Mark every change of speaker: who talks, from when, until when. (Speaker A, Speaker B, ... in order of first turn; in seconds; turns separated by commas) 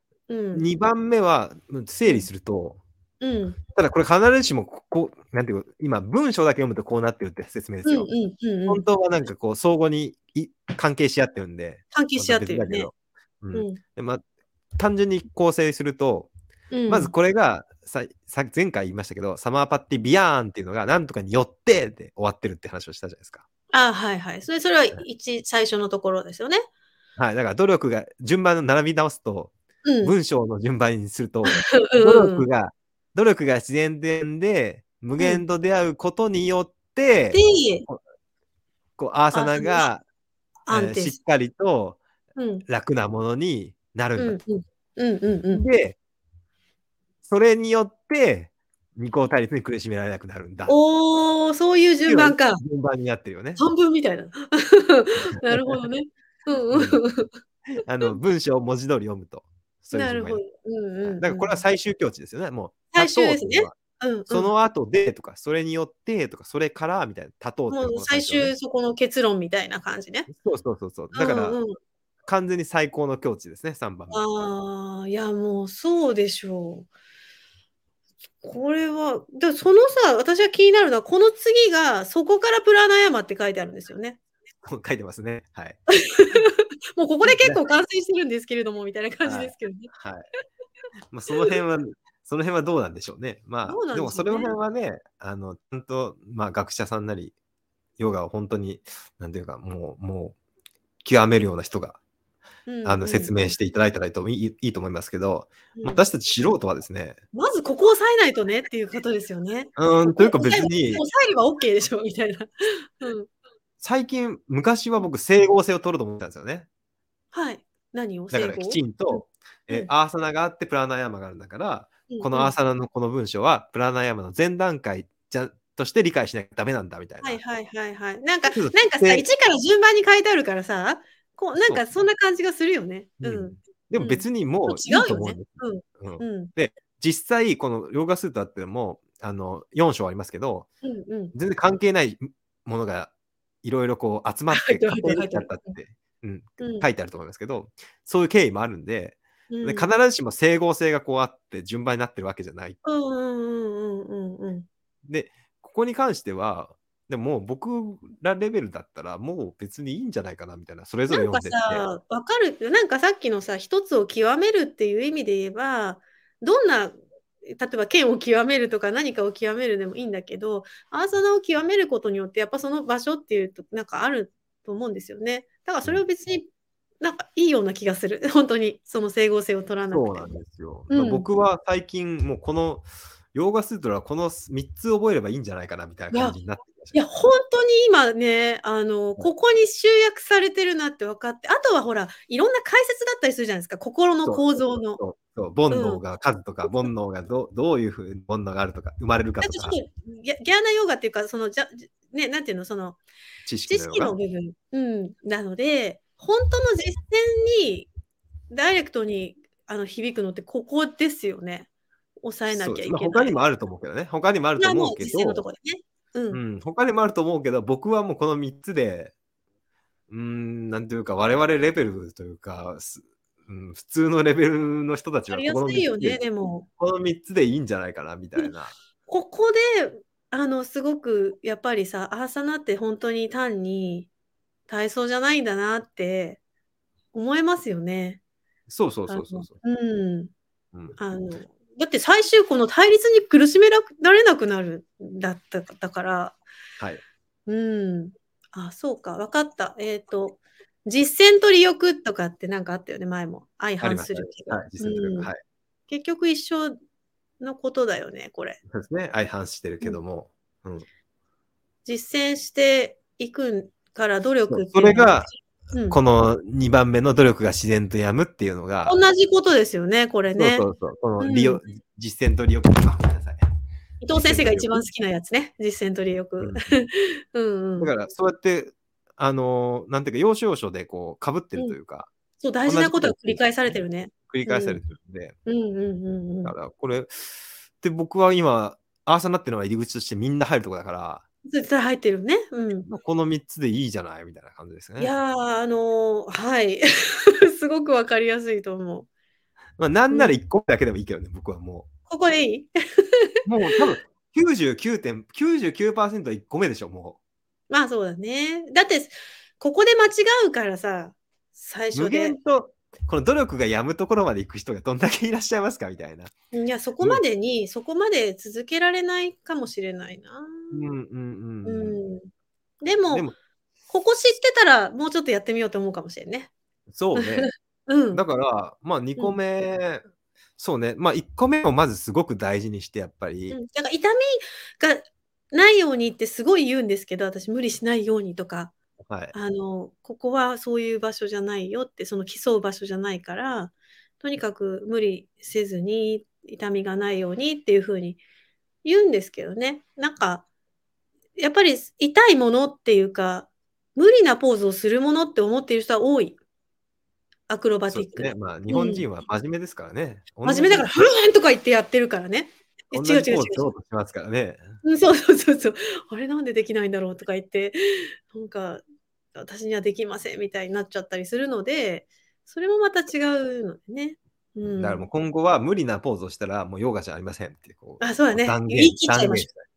Speaker A: 0.3-0.7, Speaker B: 0.5-2.8, Speaker A: 3.2-3.6, Speaker B: 3.7-8.1, Speaker A: 7.8-8.8, Speaker B: 8.7-14.2, Speaker A: 11.9-12.9, Speaker A: 13.5-13.8, Speaker B: 14.8-16.3, Speaker A: 16.7-17.1, Speaker B: 16.9-23.4, Speaker A: 23.7-26.6, Speaker B: 27.2-38.0, Speaker A: 29.8-30.1, Speaker A: 31.4-32.5, Speaker A: 35.2-35.4, Speaker A: 37.3-37.9, Speaker B: 39.0-40.0, Speaker A: 39.3-39.9, Speaker A: 40.7-41.2, Speaker B: 40.7-42.0, Speaker A: 42.4-42.6, Speaker B: 42.7-44.4, Speaker A: 44.2-45.6, Speaker B: 45.5-46.0, Speaker B: 47.2-50.8, Speaker A: 50.7-52.6, Speaker B: 52.0-53.6, Speaker A: 53.6-57.3, Speaker B: 55.5-55.8, Speaker B: 56.7-57.0, Speaker B: 57.8-60.4, Speaker A: 59.9-61.6, Speaker B: 61.0-63.7, Speaker A: 62.9-64.5, Speaker B: 64.3-68.5, Speaker A: 67.7-70.3, Speaker B: 70.3-71.6, Speaker A: 71.1-71.7, Speaker B: 72.2-74.2, Speaker A: 74.1-76.9, Speaker A: 78.4-84.2, Speaker B: 84.6-85.8, Speaker A: 86.0-89.9, Speaker B: 87.2-87.6, Speaker B: 89.2-90.2, Speaker B: 91.1-97.3, Speaker A: 91.3-91.6, Speaker A: 93.6-94.5, Speaker B: 98.0-100.3, Speaker B: 101.0-102.0, Speaker A: 102.7-103.5, Speaker B: 102.8-107.2, Speaker A: 105.7-106.0, Speaker A: 107.3-113.3, Speaker B: 109.8-111.0, Speaker B: 113.8-116.7, Speaker A: 117.3-119.9, Speaker B: 118.3-127.4, Speaker A: 122.1-122.5, Speaker A: 127.2-136.5, Speaker B: 128.4-129.2, Speaker B: 131.6-131.8, Speaker B: 133.2-140.7, Speaker A: 140.8-141.3, Speaker B: 141.3-143.1, Speaker B: 143.6-152.8, Speaker A: 144.5-145.7, Speaker A: 146.6-146.9, Speaker A: 149.5-149.9, Speaker A: 152.8-154.7, Speaker B: 155.1-161.8, Speaker A: 161.1-166.9, Speaker A: 167.5-176.5, Speaker A: 177.0-180.3, Speaker B: 179.9-187.0, Speaker A: 180.9-181.2, Speaker A: 186.9-195.0, Speaker B: 194.2-199.8, Speaker A: 195.7-196.0, Speaker A: 199.4-203.0, Speaker B: 203.4-204.2, Speaker A: 203.7-207.9, Speaker A: 208.5-211.7, Speaker A: 212.2-213.4, Speaker B: 212.5-215.5, Speaker A: 214.6-216.4, Speaker B: 216.3-219.1, Speaker B: 220.1-226.2, Speaker A: 225.3-226.7, Speaker B: 226.8-228.7, Speaker A: 229.1-234.1, Speaker A: 234.7-236.4, Speaker A: 237.1-238.2, Speaker B: 238.7-239.6, Speaker A: 239.1-240.3, Speaker A: 241.0-246.4, Speaker A: 247.5-255.3, Speaker B: 253.8-255.4, Speaker A: 255.9-256.8, Speaker A: 257.4-258.6, Speaker B: 258.7-260.9, Speaker A: 261.9-266.0, Speaker B: 264.5-265.3, Speaker B: 265.9-269.0, Speaker A: 268.9-270.6, Speaker B: 270.4-273.4, Speaker A: 271.2-271.6, Speaker A: 274.0-277.9, Speaker B: 274.1-274.8, Speaker B: 276.4-276.7, Speaker B: 277.8-282.1, Speaker A: 282.4-284.8, Speaker B: 282.6-283.5, Speaker B: 284.3-285.4, Speaker A: 285.4-286.5, Speaker B: 286.4-287.2, Speaker B: 287.8-291.2, Speaker A: 291.4-292.9, Speaker B: 292.9-295.1, Speaker A: 295.0-299.1, Speaker B: 299.8-301.9, Speaker A: 300.1-300.4, Speaker A: 302.1-302.7, Speaker B: 303.4-307.2, Speaker A: 307.7-312.4, Speaker B: 311.9-316.3, Speaker A: 316.5-320.8, Speaker B: 320.7-322.0, Speaker A: 321.6-322.3, Speaker A: 322.8-323.3, Speaker B: 323.1-323.3, Speaker A: 323.9-326.5, Speaker B: 326.9-327.5, Speaker A: 327.1-328.2, Speaker B: 328.1-330.0, Speaker B: 330.6-333.6, Speaker A: 333.5-338.7, Speaker B: 339.1-339.3, Speaker A: 339.3-348.2, Speaker A: 348.8-350.4, Speaker A: 351.4-356.4, Speaker A: 357.5-359.1, Speaker B: 357.9-360.9, Speaker A: 360.4-363.7, Speaker B: 362.9-364.7, Speaker A: 364.8-368.8, Speaker A: 369.3-375.1, Speaker B: 374.6-379.6, Speaker A: 378.0-379.5